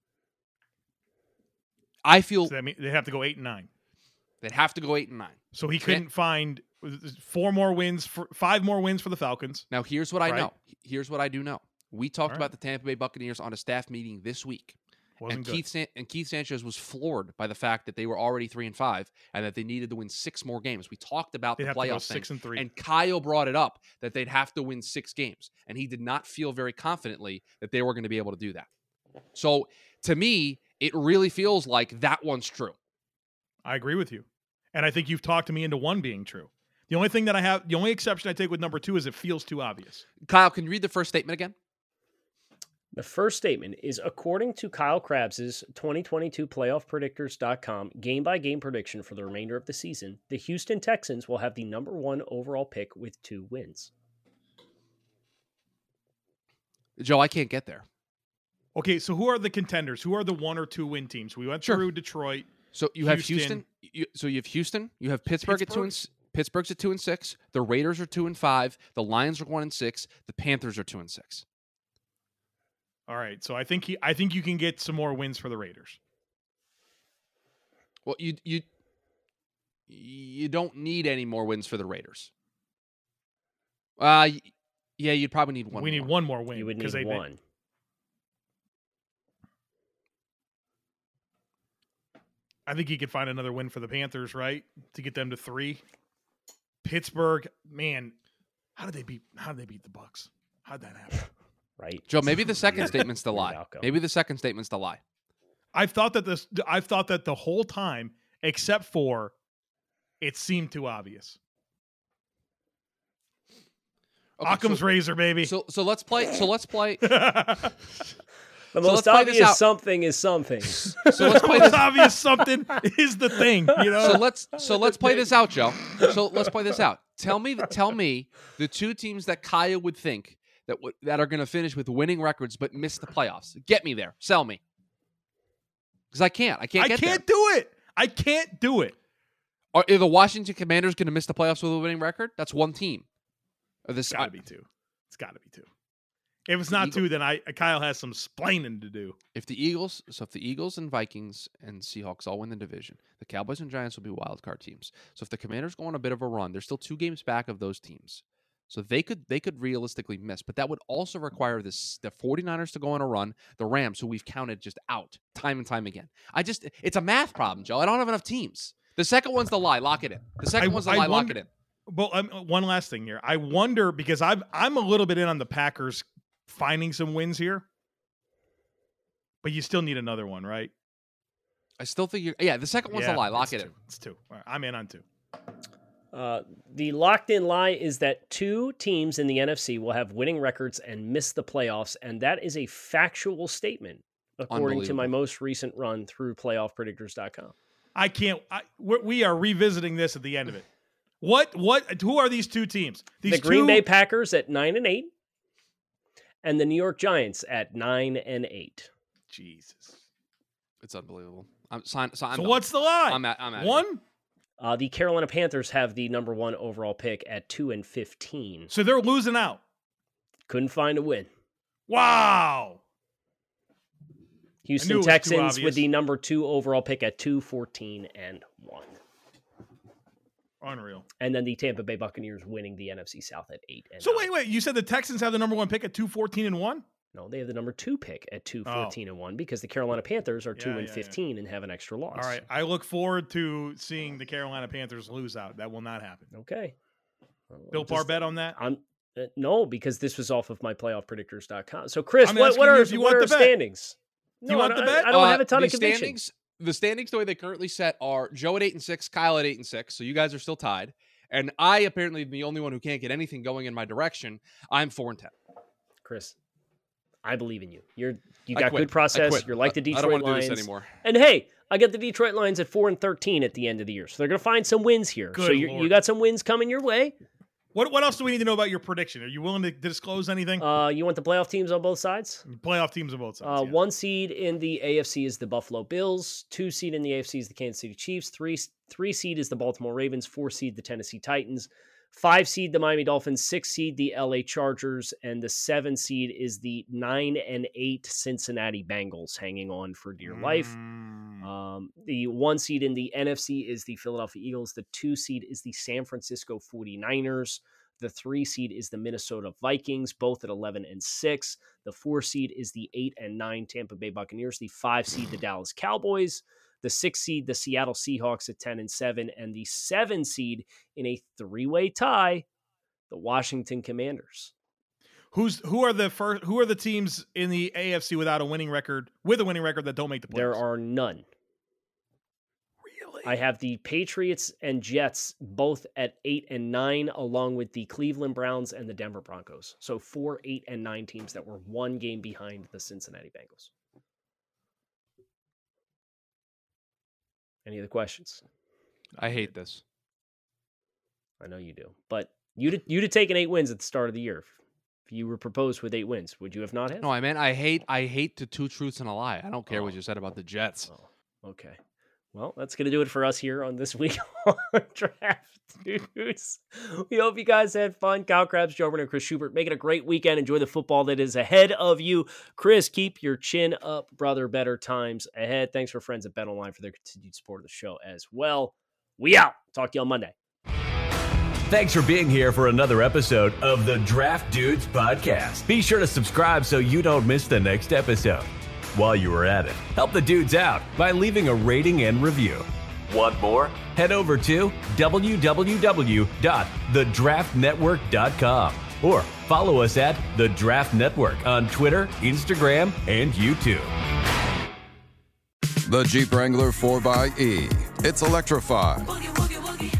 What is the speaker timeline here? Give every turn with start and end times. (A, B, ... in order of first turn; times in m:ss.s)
0:02.0-0:02.5 A
0:02.4-0:03.7 B
0:04.4-0:06.0 A
0:05.5-0:09.7 B
0:09.7-0:14.8 A
0:10.2-0:10.5 B
0:12.3-0:12.5 B
0:15.2-0:15.6 B
0:15.3-0:28.7 A
0:21.6-0:22.6 B
0:29.4-0:32.8 A
0:33.6-0:40.0 B
0:40.2-0:41.6 A
0:42.9-0:53.9 C
0:57.0-0:57.8 A
0:58.8-1:03.6 B
1:02.7-1:11.4 A
1:05.4-1:06.0 B
1:13.1-1:16.0 B
1:18.0-1:18.6 A
1:19.9-1:22.3 A
1:24.0-1:26.1 A
1:25.7-1:27.2 B
1:26.5-1:27.4 C
1:32.7-1:35.8 B
1:36.8-1:38.2 B
1:38.8-1:41.3 B
1:41.8-1:43.9 C
1:42.1-1:45.0 A
1:45.7-1:49.3 B
1:50.2-1:51.4 B
1:54.4-1:57.2 A
1:54.4-1:55.5 B
1:57.0-1:57.7 B
1:58.7-2:01.7 C
1:58.8-1:59.6 A
2:01.0-2:01.9 A
2:01.1-2:04.2 B
2:03.8-2:04.0 C
2:04.0-2:14.6 A
2:16.1-2:17.2 A
2:16.8-2:19.0 B
2:19.7-2:23.0 A
2:23.9-2:24.3 A
2:24.1-2:25.7 B
2:26.5-2:29.2 B
2:26.7-2:27.0 A
2:29.4-2:51.5 A
2:50.6-2:57.6 B
2:59.4-3:00.7 B
3:01.8-3:03.7 A
3:02.9-3:05.0 B
3:06.1-3:17.5 C
3:14.5-3:15.1 A
3:18.0-3:20.7 B
3:21.2-3:23.9 B
3:23.3-3:25.1 C
3:26.4-3:28.9 C
3:29.3-3:30.0 B
3:30.8-3:33.9 A
3:32.3-3:34.0 B
3:34.6-3:38.7 C
3:38.7-3:39.6 B
3:40.5-3:41.3 C
3:41.9-3:42.8 B
3:44.6-3:49.0 C
3:44.8-3:45.9 B
3:50.6-3:51.1 B
3:51.2-3:54.3 C
3:54.0-3:56.8 B
3:57.1-4:02.4 C
3:58.6-3:59.0 B
4:00.6-4:01.2 B
4:02.2-4:06.3 B
4:06.3-4:06.8 C
4:07.5-4:16.2 C
4:07.7-4:08.6 B
4:12.2-4:13.6 B
4:14.5-4:15.2 B
4:15.1-4:25.3 A
4:26.0-4:26.4 C
4:27.2-4:37.2 C
4:28.5-4:30.9 A
4:35.3-4:36.0 B
4:37.7-4:40.6 B
4:40.6-4:42.4 C
4:42.5-4:43.8 B
4:43.4-5:00.8 C
5:00.2-5:01.5 B
5:01.4-5:22.5 C
5:23.1-5:24.5 C
5:25.3-5:30.6 B
5:30.3-5:31.3 C
5:32.8-5:33.3 B
5:33.2-5:43.7 C
5:47.7-5:48.4 C
5:49.2-5:49.8 A
5:49.2-5:49.5 B
5:51.4-5:54.6 C
5:55.1-5:57.1 C
5:57.0-6:00.9 A
6:00.9-6:01.8 C
6:02.3-6:20.3 C
6:21.7-6:43.9 D
6:45.8-6:49.6 E